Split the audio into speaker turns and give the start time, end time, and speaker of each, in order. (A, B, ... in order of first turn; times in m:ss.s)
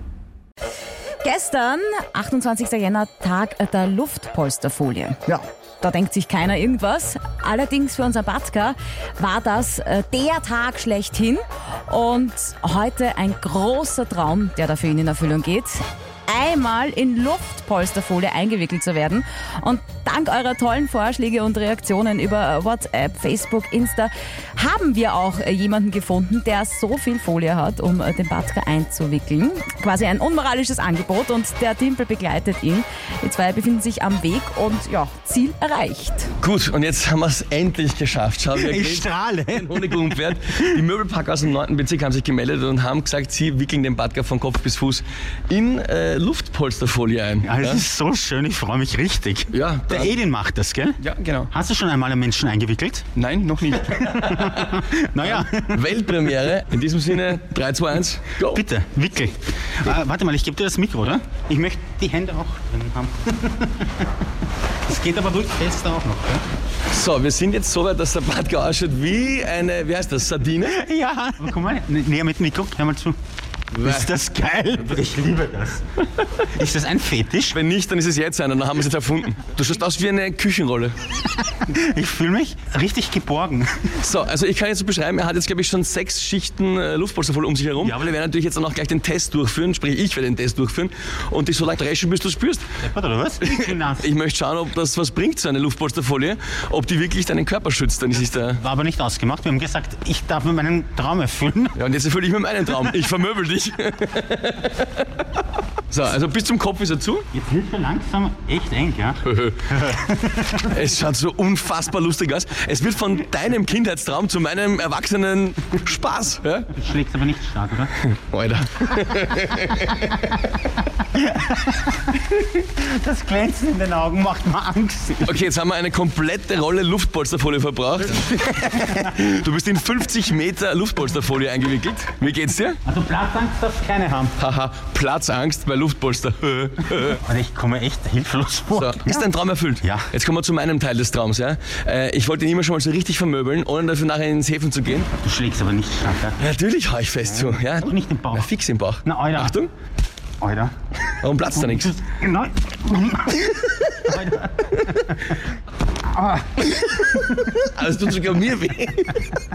0:01.2-0:36.3 A
0:36.4-0:47.8 B
0:38.5-0:40.6 C
0:47.4-0:51.0 C
0:49.5-0:50.1 B
0:51.0-0:51.5 B
0:51.5-0:53.1 C
0:53.2-0:58.6 B
0:53.8-0:55.8 C
0:58.5-1:04.0 C
1:04.9-1:06.4 C
1:06.9-1:10.8 B
1:10.7-1:13.2 C
1:13.7-1:15.8 C
1:13.8-1:14.1 B
1:16.5-1:17.6 C
1:17.5-1:20.9 B
1:21.6-1:23.9 C
1:24.0-1:32.6 B
1:32.8-1:34.1 C
1:33.4-1:38.6 B
1:38.4-1:41.8 C
1:41.8-1:45.1 B
1:45.9-1:47.2 B
1:47.3-1:50.7 C
1:49.3-1:49.7 B
1:50.6-1:56.7 B
1:56.7-1:57.9 C
1:58.1-2:00.3 B
2:01.1-2:05.3 C
2:05.2-2:12.8 B
2:08.1-2:09.0 C
2:12.8-2:14.3 C
2:14.4-2:17.2 B
2:17.3-2:19.2 C
2:18.7-2:25.1 B
2:19.8-2:20.1 C
2:25.2-2:26.4 C
2:26.4-2:29.7 B
2:27.2-2:28.5 C
2:29.0-2:29.6 C
2:30.4-2:30.7 C
2:31.2-2:31.9 B
2:31.5-2:35.4 C
2:36.1-2:37.6 C
2:37.6-2:39.4 B